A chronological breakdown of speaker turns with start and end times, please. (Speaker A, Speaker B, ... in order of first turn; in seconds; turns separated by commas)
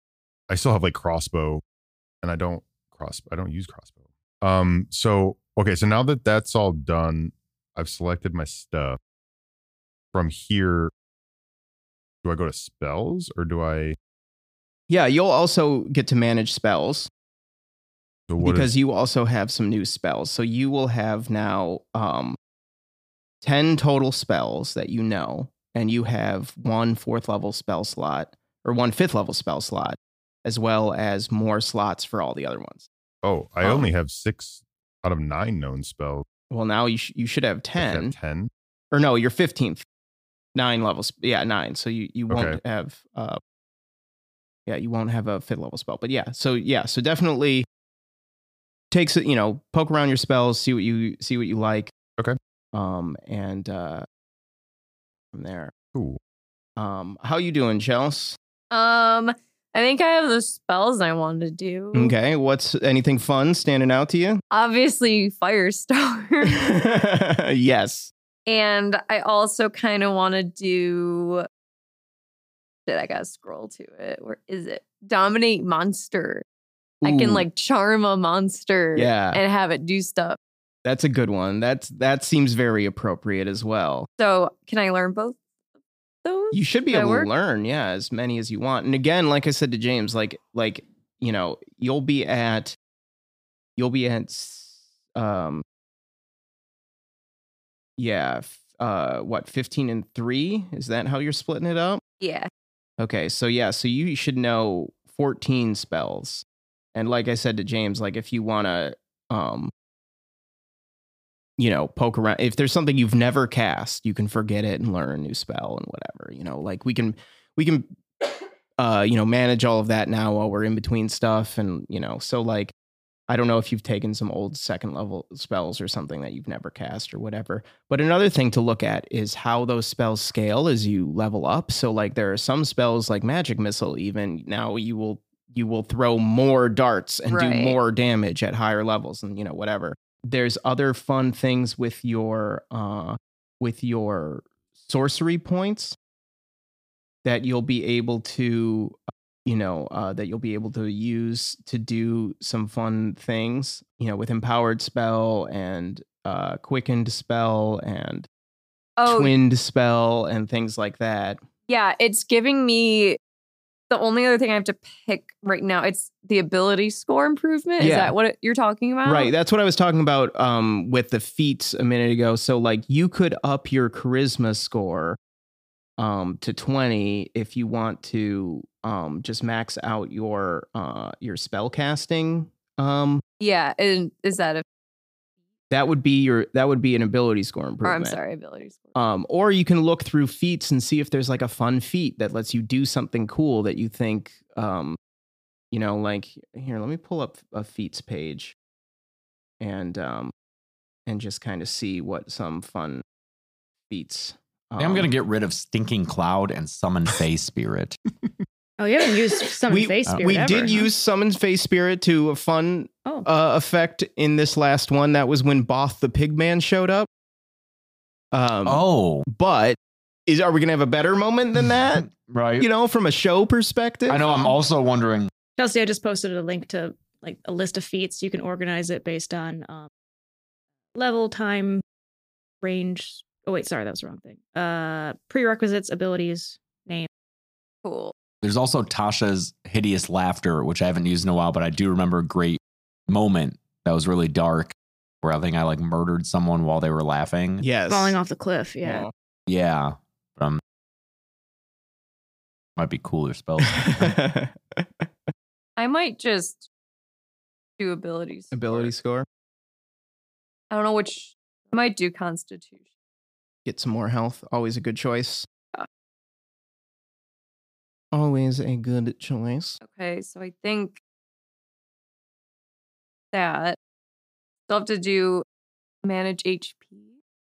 Speaker A: 0.5-1.6, Speaker A: 2.2-9.0, Speaker A: 10.1-10.9, Speaker A: 12.2-14.0, Speaker B: 14.9-17.1, Speaker A: 18.3-18.7, Speaker B: 18.4-22.4, Speaker B: 23.4-32.9, Speaker A: 33.2-36.3, Speaker B: 36.5-38.1, Speaker A: 37.8-38.5, Speaker B: 38.9-39.9, Speaker B: 40.5-43.4, Speaker A: 42.3-42.6, Speaker B: 44.7-47.7, Speaker B: 48.9-51.9, Speaker B: 52.7-54.1, Speaker B: 55.3-55.7, Speaker B: 56.8-58.4, Speaker C: 58.7-62.1, Speaker B: 62.0-64.4, Speaker C: 64.5-66.7, Speaker B: 66.4-68.1, Speaker C: 68.5-71.5, Speaker C: 72.9-76.4, Speaker B: 77.0-77.5, Speaker C: 77.0-80.4, Speaker B: 79.0-79.4, Speaker B: 80.8-84.1, Speaker C: 84.2-85.4, Speaker C: 86.2-87.3, Speaker B: 86.5-92.8, Speaker B: 93.8-95.6, Speaker B: 98.0-102.0, Speaker C: 102.2-102.5, Speaker B: 103.0-109.7, Speaker B: 111.6-117.9, Speaker B: 118.8-122.7, Speaker B: 123.3-146.0, Speaker C: 137.3-137.8, Speaker B: 147.2-158.3, Speaker C: 159.0-159.3, Speaker B: 159.1-161.4, Speaker C: 161.7-163.2, Speaker C: 163.9-169.3, Speaker B: 167.8-168.2, Speaker B: 169.1-175.2, Speaker B: 176.0-183.2, Speaker C: 183.4-184.6, Speaker B: 185.7-188.2, Speaker C: 187.8-188.9, Speaker B: 188.9-195.0, Speaker B: 195.7-198.6, Speaker B: 199.6-200.3, Speaker B: 201.1-203.0, Speaker B: 203.9-205.1, Speaker D: 204.8-208.0, Speaker E: 208.8-210.9, Speaker B: 209.7-217.1, Speaker D: 210.1-210.6, Speaker B: 218.3-224.3, Speaker D: 218.7-219.3, Speaker D: 222.1-222.7, Speaker D: 224.1-225.3, Speaker E: 225.6-229.9, Speaker E: 230.9-231.8, Speaker E: 232.6-237.1, Speaker C: 237.8-238.1, Speaker D: 238.4-247.7, Speaker B: 247.6-248.2, Speaker E: 247.9-249.1, Speaker B: 248.8-249.1, Speaker D: 249.5-250.6, Speaker D: 252.8-254.2, Speaker B: 253.7-254.9, Speaker C: 255.8-256.7, Speaker C: 257.8-258.9, Speaker B: 258.5-259.3, Speaker C: 260.7-262.8, Speaker B: 263.7-265.5, Speaker B: 268.1-269.8, Speaker C: 269.8-271.0, Speaker C: 273.3-273.8, Speaker C: 274.7-275.4, Speaker C: 276.0-277.1